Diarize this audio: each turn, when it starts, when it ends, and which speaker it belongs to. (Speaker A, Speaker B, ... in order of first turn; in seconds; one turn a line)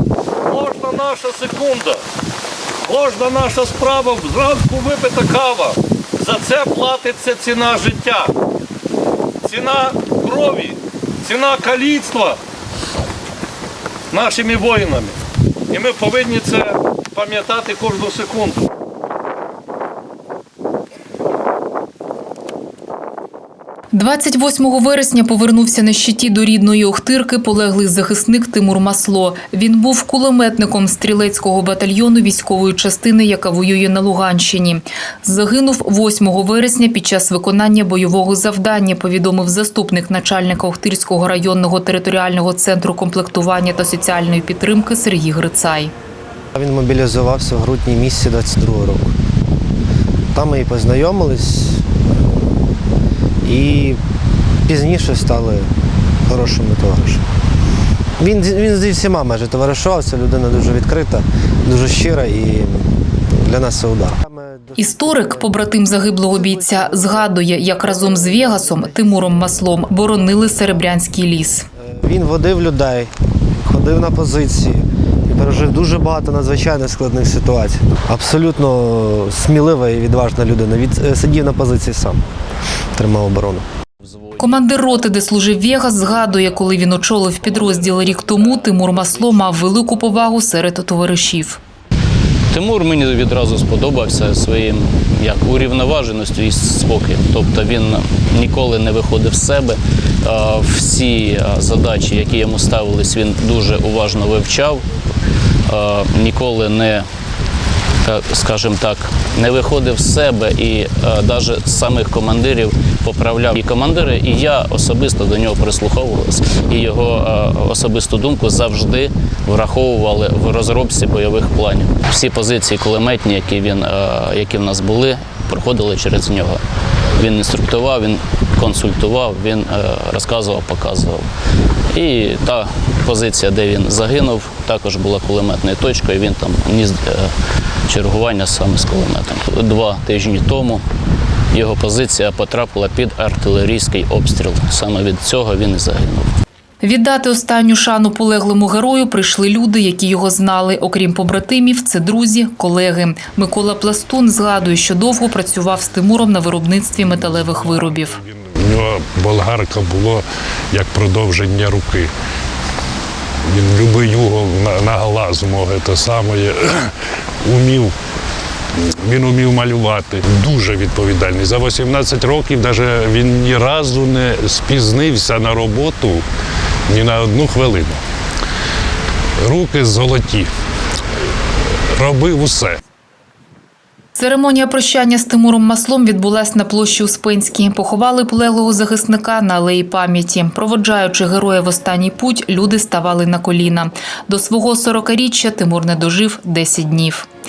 Speaker A: 0.4-2.0
Speaker A: 2.8-8.3
Speaker A: 9.4-12.4
Speaker A: 14.1-15.2
Speaker A: 15.7-18.7
Speaker B: 23.9-45.9
Speaker C: 46.6-49.1
Speaker C: 50.3-51.8
Speaker C: 53.5-54.0
Speaker C: 54.7-55.7
Speaker C: 56.3-57.2
Speaker C: 58.2-70.9
Speaker B: 64.8-71.7
Speaker C: 71.8-82.2
Speaker C: 82.9-83.7
Speaker D: 84.0-84.9
Speaker B: 84.4-91.6
Speaker D: 85.5-90.2
Speaker D: 92.5-104.8
Speaker D: 105.7-107.0
Speaker D: 108.0-126.6
Speaker D: 127.2-131.3
Speaker D: 131.9-137.3
Speaker D: 137.9-140.8
Speaker D: 141.5-146.3
Speaker B: 146.8-158.2
Speaker E: 157.0-162.1
Speaker E: 163.5-166.9
Speaker E: 167.4-167.9
Speaker E: 169.0-176.2
Speaker E: 176.9-178.0
Speaker E: 179.4-180.5
Speaker E: 182.0-182.8
Speaker B: 184.2-197.3